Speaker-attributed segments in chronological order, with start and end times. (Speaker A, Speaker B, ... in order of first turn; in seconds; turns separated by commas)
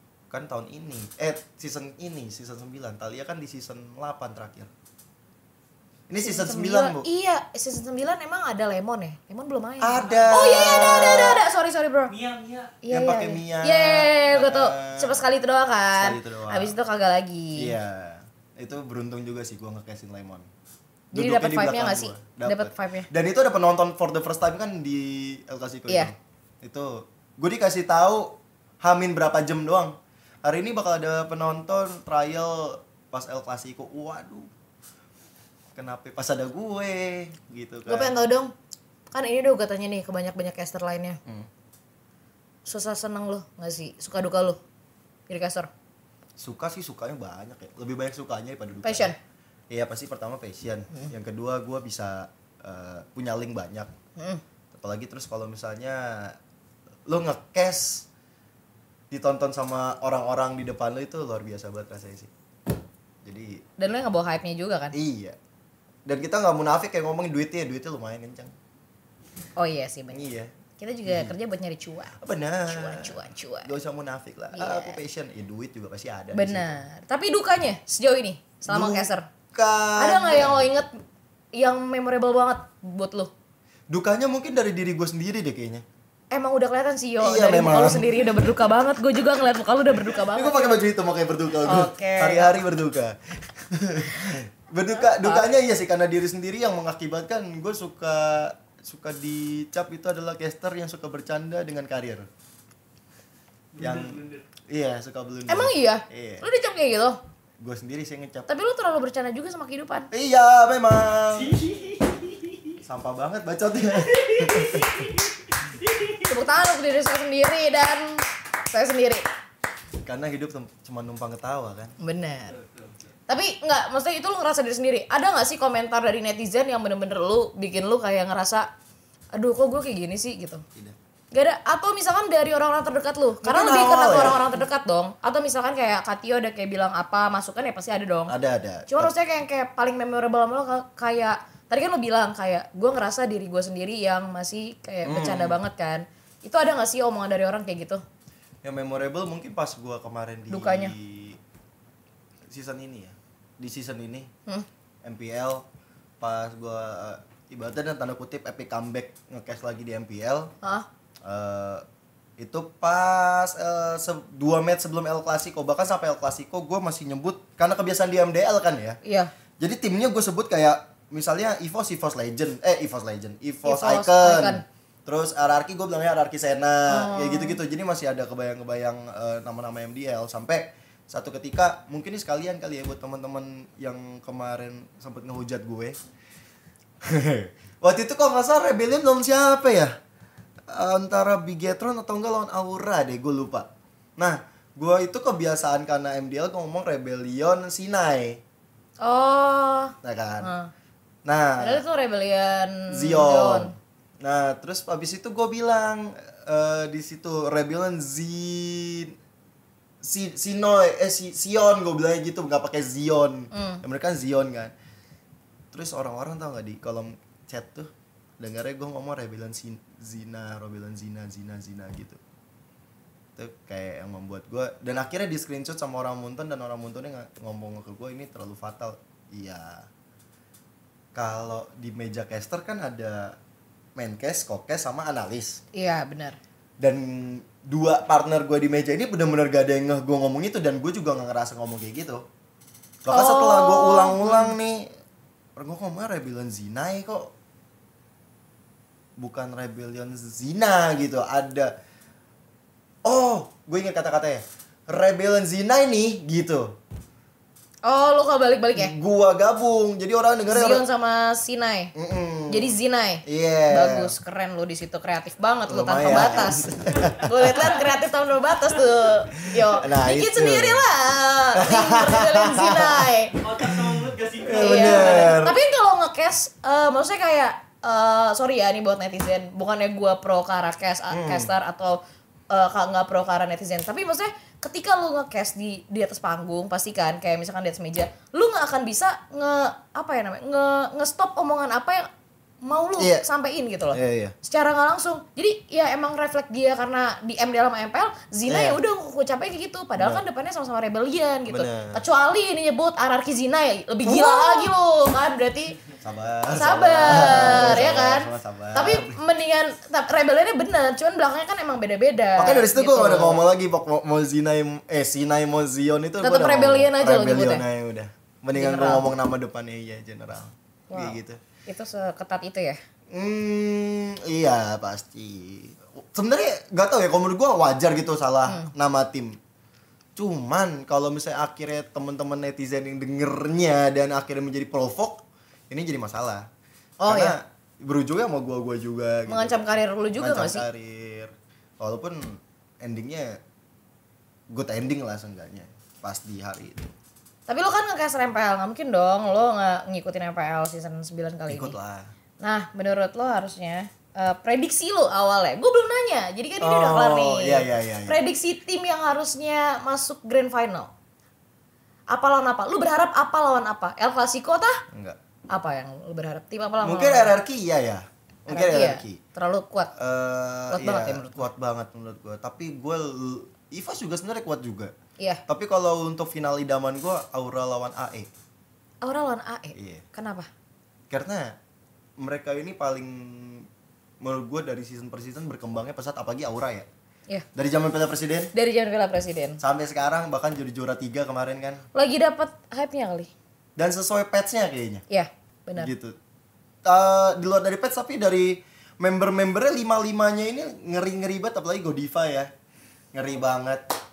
Speaker A: 0.3-4.7, Speaker A: 6.1-7.1, Speaker B: 6.2-12.1, Speaker A: 9.8-11.4, Speaker C: 10.0-11.2, Speaker C: 12.1-12.8, Speaker B: 12.8-17.8, Speaker A: 12.9-15.2, Speaker A: 16.0-16.8, Speaker A: 17.6-20.5, Speaker A: 21.1-34.5, Speaker B: 21.1-23.1, Speaker A: 35.7-38.1, Speaker B: 37.9-38.5, Speaker B: 39.1-41.2, Speaker B: 42.7-44.6, Speaker B: 45.3-45.7, Speaker A: 46.4-49.1, Speaker B: 48.8-49.2, Speaker A: 49.7-53.9, Speaker B: 54.2-54.4, Speaker A: 54.7-56.4, Speaker A: 57.1-58.1, Speaker A: 59.1-62.3, Speaker A: 63.2-63.6, Speaker B: 63.8-65.0, Speaker A: 64.9-65.4, Speaker A: 66.1-68.5, Speaker B: 69.6-70.2, Speaker A: 70.1-70.5, Speaker B: 70.8-73.7, Speaker A: 71.0-71.3, Speaker A: 72.2-76.8, Speaker B: 74.5-75.0, Speaker B: 76.3-79.3, Speaker A: 78.7-80.7, Speaker B: 80.0-80.9, Speaker B: 81.5-83.3, Speaker A: 83.9-85.8, Speaker B: 86.3-90.8, Speaker A: 87.2-88.5, Speaker A: 90.1-102.3, Speaker B: 91.6-92.6, Speaker B: 95.0-95.5, Speaker C: 103.8-104.4, Speaker A: 103.8-106.5, Speaker B: 105.5-107.2, Speaker A: 107.6-108.5, Speaker B: 108.5-110.1, Speaker A: 110.1-111.6, Speaker C: 111.4-112.5, Speaker A: 112.8-115.1, Speaker C: 114.2-116.2, Speaker B: 116.2-119.3, Speaker A: 120.0-121.9, Speaker B: 122.0-122.6, Speaker C: 122.6-122.9, Speaker B: 123.3-128.7, Speaker B: 129.3-130.7, Speaker B: 131.3-138.3, Speaker A: 133.4-134.5, Speaker A: 138.3-139.1, Speaker B: 138.9-148.0, Speaker A: 145.1-145.6, Speaker A: 148.6-151.4, Speaker B: 150.5-150.9, Speaker A: 152.5-154.3, Speaker A: 155.0-155.7, Speaker A: 156.2-160.5, Speaker B: 160.6-160.9, Speaker A: 161.2-161.8, Speaker A: 162.4-169.0, Speaker B: 169.0-169.3, Speaker A: 169.6-186.0, Speaker B: 173.6-174.6, Speaker B: 176.9-177.6, Speaker A: 187.0-189.9, Speaker A: 190.7-198.4, Speaker B: 199.0-200.7, Speaker A: 200.0-200.5, Speaker A: 201.2-201.8, Speaker B: 201.6-203.8, Speaker A: 202.9-209.2, Speaker A: 210.0-214.7, Speaker B: 213.5-213.8, Speaker A: 215.7-222.2, Speaker A: 223.4-229.9, Speaker A: 231.1-233.4, Speaker A: 234.0-235.6, Speaker B: 235.7-236.4, Speaker A: 236.8-242.2, Speaker A: 243.0-244.9, Speaker B: 243.1-244.5, Speaker A: 245.6-247.3, Speaker A: 249.2-251.7, Speaker A: 253.0-256.8, Speaker B: 257.8-258.9, Speaker A: 258.8-260.9, Speaker B: 260.5-261.9, Speaker A: 261.9-264.1, Speaker B: 262.5-273.4, Speaker A: 265.7-267.5, Speaker C: 267.5-267.8, Speaker A: 269.6-270.9, Speaker A: 271.5-275.6, Speaker C: 273.4-275.4, Speaker B: 274.6-292.1, Speaker A: 281.1-281.5, Speaker B: 292.6-305.8, Speaker A: 293.0-293.3, Speaker A: 293.9-294.3, Speaker A: 298.5-298.8, Speaker A: 300.0-300.2, Speaker A: 301.5-302.1, Speaker A: 304.1-304.7, Speaker A: 306.0-309.2, Speaker B: 306.6-313.4, Speaker A: 312.4-321.4, Speaker B: 316.2-317.6, Speaker B: 318.5-319.1, Speaker B: 320.9-322.8, Speaker A: 323.1-329.4, Speaker B: 328.5-328.7, Speaker A: 330.2-336.5, Speaker B: 337.0-337.4, Speaker A: 337.1-339.6, Speaker B: 339.3-340.7, Speaker A: 340.2-343.4, Speaker A: 344.5-346.9, Speaker B: 347.5-351.8, Speaker A: 351.5-352.1, Speaker B: 352.4-360.9, Speaker A: 356.6-358.2, Speaker B: 362.1-364.8, Speaker A: 364.9-365.2, Speaker B: 365.5-367.4, Speaker A: 366.8-369.2, Speaker B: 368.5-369.9, Speaker A: 370.0-374.9, Speaker B: 370.7-371.5, Speaker A: 375.5-378.3, Speaker B: 379.0-380.5, Speaker A: 379.8-380.1, Speaker A: 381.1-381.6, Speaker A: 382.2-383.7, Speaker A: 384.2-386.9, Speaker A: 387.6-388.5, Speaker B: 388.5-389.6, Speaker A: 389.6-391.9, Speaker B: 391.9-393.3, Speaker A: 393.8-395.1, Speaker B: 395.1-395.9, Speaker A: 395.8-396.2, Speaker A: 396.9-402.5, Speaker A: 403.1-403.9